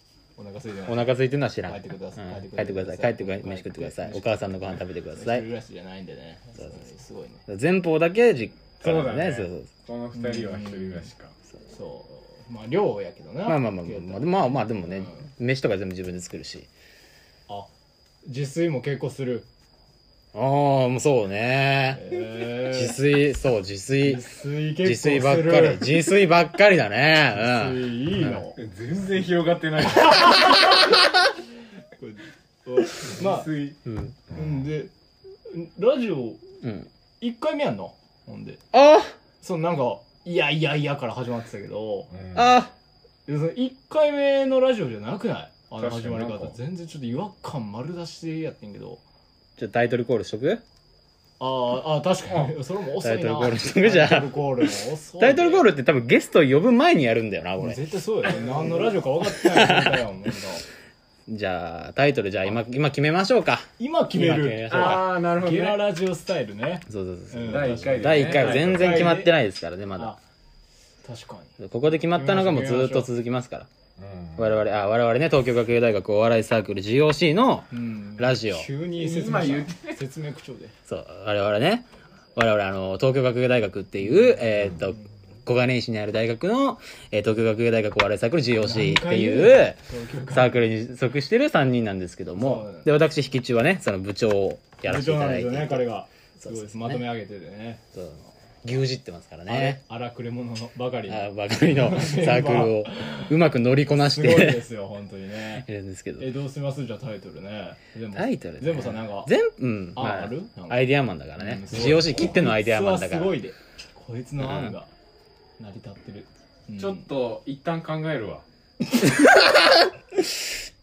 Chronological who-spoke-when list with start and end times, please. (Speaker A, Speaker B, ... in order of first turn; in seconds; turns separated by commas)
Speaker A: 0.4-7.4, Speaker B: 0.8-5.4, Speaker B: 7.5-9.7, Speaker C: 8.8-11.3, Speaker A: 10.1-11.1, Speaker A: 11.7-15.2, Speaker B: 13.4-16.7, Speaker A: 18.2-19.5, Speaker B: 20.3-24.2, Speaker A: 21.9-23.0, Speaker A: 24.0-26.0, Speaker B: 24.8-28.4, Speaker A: 27.3-28.6, Speaker C: 28.5-30.5, Speaker B: 30.5-31.0, Speaker A: 32.0-33.5, Speaker C: 33.0-33.8, Speaker B: 33.9-34.1, Speaker A: 34.3-34.9, Speaker A: 35.5-36.4, Speaker B: 36.6-36.9, Speaker A: 37.2-38.6, Speaker B: 38.7-39.1, Speaker A: 39.4-42.1, Speaker C: 42.1-42.6, Speaker B: 42.3-42.7, Speaker A: 43.2-49.0, Speaker C: 45.8-46.6, Speaker B: 49.6-50.6, Speaker A: 51.4-55.7, Speaker B: 53.0-57.8, Speaker A: 57.6-60.6, Speaker B: 59.2-60.0, Speaker B: 61.3-65.1, Speaker A: 63.8-69.3, Speaker C: 64.7-65.9, Speaker B: 66.9-70.1, Speaker C: 67.5-69.1, Speaker A: 71.0-73.1, Speaker B: 71.6-73.7, Speaker C: 74.0-74.6, Speaker B: 74.4-78.7, Speaker A: 77.7-80.7, Speaker C: 78.9-80.0, Speaker B: 80.9-95.9, Speaker A: 88.6-90.7, Speaker A: 92.4-92.9, Speaker A: 94.8-97.8, Speaker B: 96.4-97.0, Speaker B: 97.9-99.8, Speaker A: 99.5-103.4, Speaker B: 101.1-104.6, Speaker A: 104.0-105.7, Speaker B: 105.4-106.3, Speaker A: 106.2-109.3, Speaker B: 108.1-113.4, Speaker A: 109.9-114.9, Speaker B: 114.4-114.7, Speaker A: 115.6-117.1, Speaker C: 116.8-118.4, Speaker B: 118.9-120.5